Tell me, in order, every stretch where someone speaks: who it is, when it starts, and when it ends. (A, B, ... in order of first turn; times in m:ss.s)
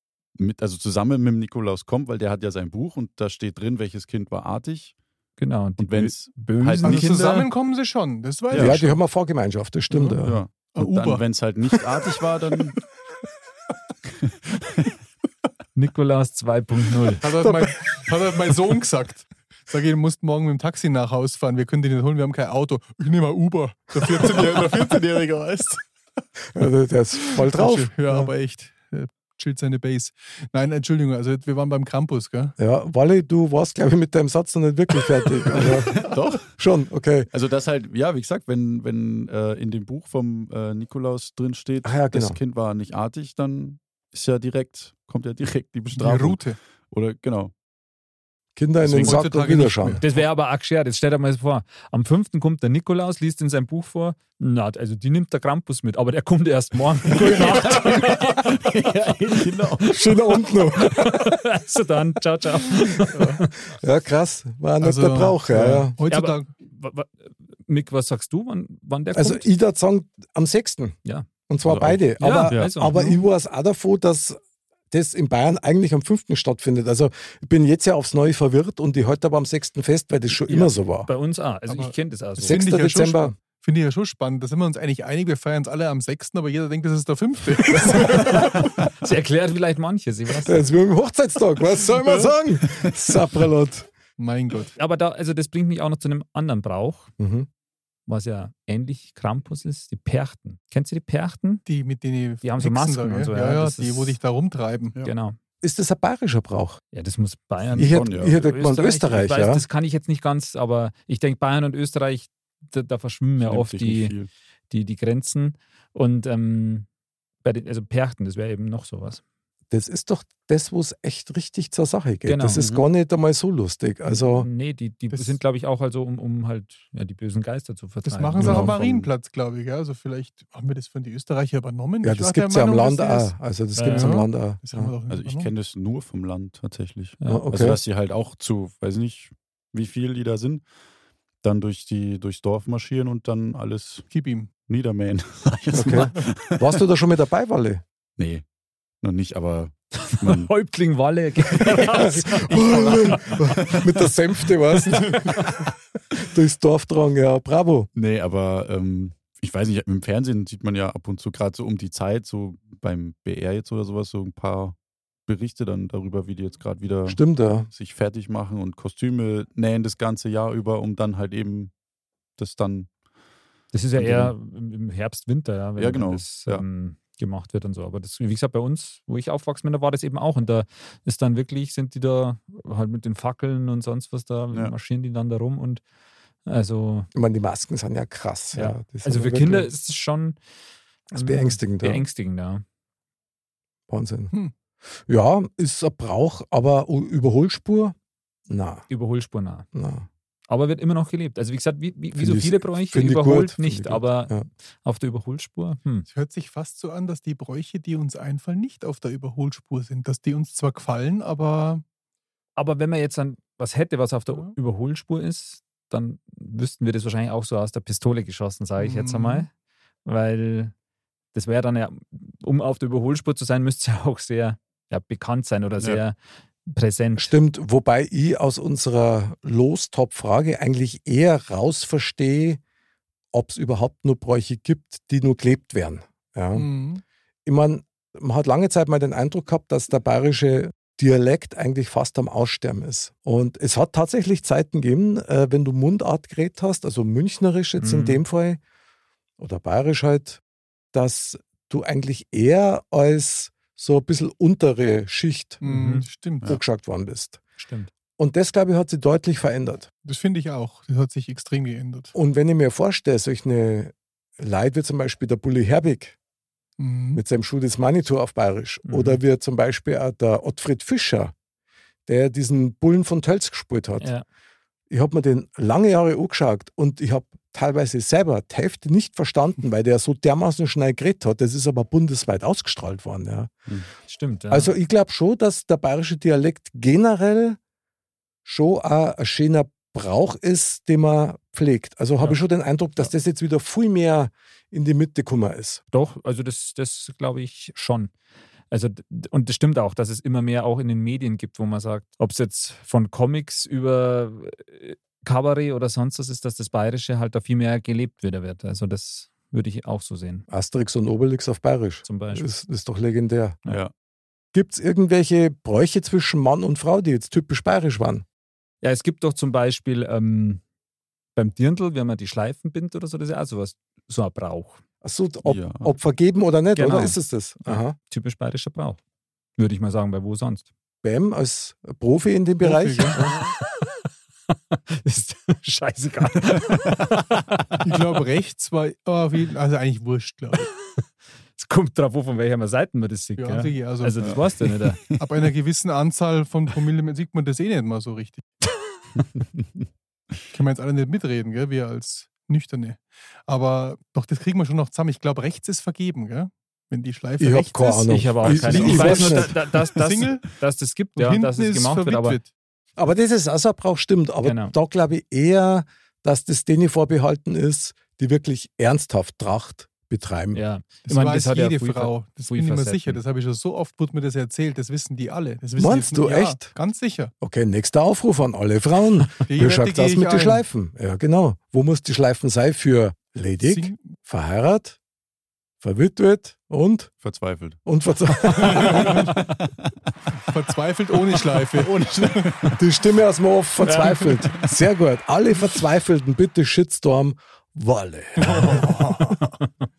0:00.4-0:04.9 A
0:05.4-0:07.5 B
0:05.8-0:07.0 A
0:06.8-0:09.0 C
0:08.5-0:08.8 A
0:08.5-0:10.4 D
0:09.9-0:10.2 C
0:10.2-0:12.8 A
0:10.7-0:11.2 C
0:15.8-0:17.2 B
0:17.2-0:25.8 C
0:26.5-0:28.3 D
0:27.3-0:32.5 C
0:32.6-0:36.0 D
0:35.6-0:36.1 C
0:35.6-0:36.5 A
0:36.6-0:37.3 D
0:37.3-0:47.5 A
0:41.8-0:42.4 D
0:45.9-0:46.6 C
0:48.6-0:50.0 D
0:48.9-0:50.2 C
0:50.0-1:03.5 B
0:59.3-0:59.9 A
0:59.9-1:01.2 D
1:03.1-1:03.4 C
1:03.7-1:06.0 D
1:04.8-1:06.5 C
1:06.0-1:09.4 B
1:09.1-1:11.0 D
1:11.5-1:14.4 D
1:11.6-1:12.7 A
1:12.2-1:13.1 B
1:14.9-1:21.1 D
1:20.5-1:22.6 B
1:21.7-1:28.6 C
1:22.4-1:23.3 D
1:27.9-1:30.6 B
1:30.4-1:33.9 D
1:34.2-1:34.7 C
1:34.8-1:37.1 B
1:37.2-1:37.5 D
1:38.1-1:41.6 B
1:41.6-1:45.0 C
1:42.4-1:44.2 B
1:45.0-1:45.4 B
1:45.6-1:46.8 D
1:46.9-1:54.2 B
1:47.8-1:49.6 D
1:47.8-1:48.4 A
1:53.4-1:54.3 A
1:54.7-1:56.9 B
1:57.4-1:59.2 B
1:59.7-2:04.5 D
2:02.2-2:02.6 B
2:02.5-2:02.9 A
2:04.4-2:08.8 B
2:05.1-2:05.4 C
2:08.0-2:15.5 C
2:08.4-2:09.1 A
2:12.0-2:14.9 D
2:13.7-2:14.2 B
2:15.1-2:20.6 A
2:17.2-2:17.4 B
2:17.3-2:17.8 D
2:21.4-2:24.1 A
2:24.1-2:24.5 C
2:24.7-2:26.7 A
2:25.7-2:27.8 D
2:28.2-2:28.4 A
2:29.0-2:30.5 A
2:30.1-2:33.6 B
2:31.7-2:35.3 D
2:35.1-2:35.5 B
2:36.2-2:37.9 D
2:37.9-2:44.8 A
2:45.3-2:51.7 A
2:47.0-2:47.7 D
2:52.4-2:52.9 A
2:53.7-3:05.8 B
2:54.0-2:54.3 A
2:55.8-2:56.6 A
3:06.4-3:07.1 B
3:07.1-3:09.7 D
3:08.5-3:10.4 B
3:11.1-3:12.6 B
3:11.1-3:12.0 D
3:13.9-3:14.3 D
3:15.1-3:17.9 D
3:18.5-3:18.8 D
3:18.9-3:19.6 B
3:19.7-3:20.1 D
3:20.5-3:26.0 B
3:22.2-3:24.5 D
3:26.1-3:31.8 C
3:32.6-3:39.5 B
3:34.3-3:34.6 C
3:38.8-3:39.5 C
3:40.0-3:40.7 B
3:41.3-3:47.3 B
3:47.2-3:52.6 D
3:53.3-3:56.7 D
3:56.5-3:57.0 C
3:57.4-4:08.6 D
4:07.8-4:08.2 B
4:09.4-4:10.4 D
4:10.9-4:15.6 D
4:15.6-4:16.5 C
4:15.6-4:16.1 B
4:16.4-4:17.4 D
4:17.6-4:17.9 B
4:18.2-4:19.9 D
4:20.0-4:22.1 C
4:22.1-4:26.2 D
4:26.8-4:27.2 C
4:27.1-4:31.3 D
4:28.8-4:29.2 B
4:32.1-4:34.1 D
4:34.9-4:43.6 D
4:44.1-4:44.7 B
4:44.5-4:47.6 D
4:48.4-4:55.8 D
4:55.9-4:58.1 B
4:58.7-5:10.4 B
5:10.5-5:13.6 D
5:12.0-5:12.5 B
5:14.5-5:18.2 D
5:18.8-5:20.6 B
5:21.4-5:24.8 B
5:25.0-5:28.0 D
5:25.4-5:25.9 A
5:26.8-5:29.0 B
5:29.6-5:30.6 B
5:31.0-5:33.2 D
5:32.6-5:33.2 C
5:33.2-5:33.6 B
5:34.7-5:37.6 B
5:37.8-5:40.7 C
5:41.6-5:45.0 B
5:43.4-5:44.2 C
5:45.2-5:48.4 C
5:49.2-5:49.6 A
5:50.5-6:00.5 C
5:57.4-5:59.5 D
5:58.1-6:02.4 B
5:58.6-5:59.5 A
6:01.1-6:02.5 C
6:03.0-6:10.6 D
6:04.4-6:04.7 B
6:10.5-6:13.2 B
6:11.0-6:17.3 C
6:15.8-6:16.7 D
6:17.4-6:25.0 D
6:19.4-6:20.6 C
6:23.6-6:24.1 C
6:25.8-6:27.1 D
6:27.2-6:27.8 A
6:27.8-6:29.2 D
6:28.6-6:29.2 C
6:30.4-6:32.5 C
6:31.6-6:32.8 A
6:32.8-6:39.2 D
6:33.8-6:34.4 B
6:38.4-6:39.5 C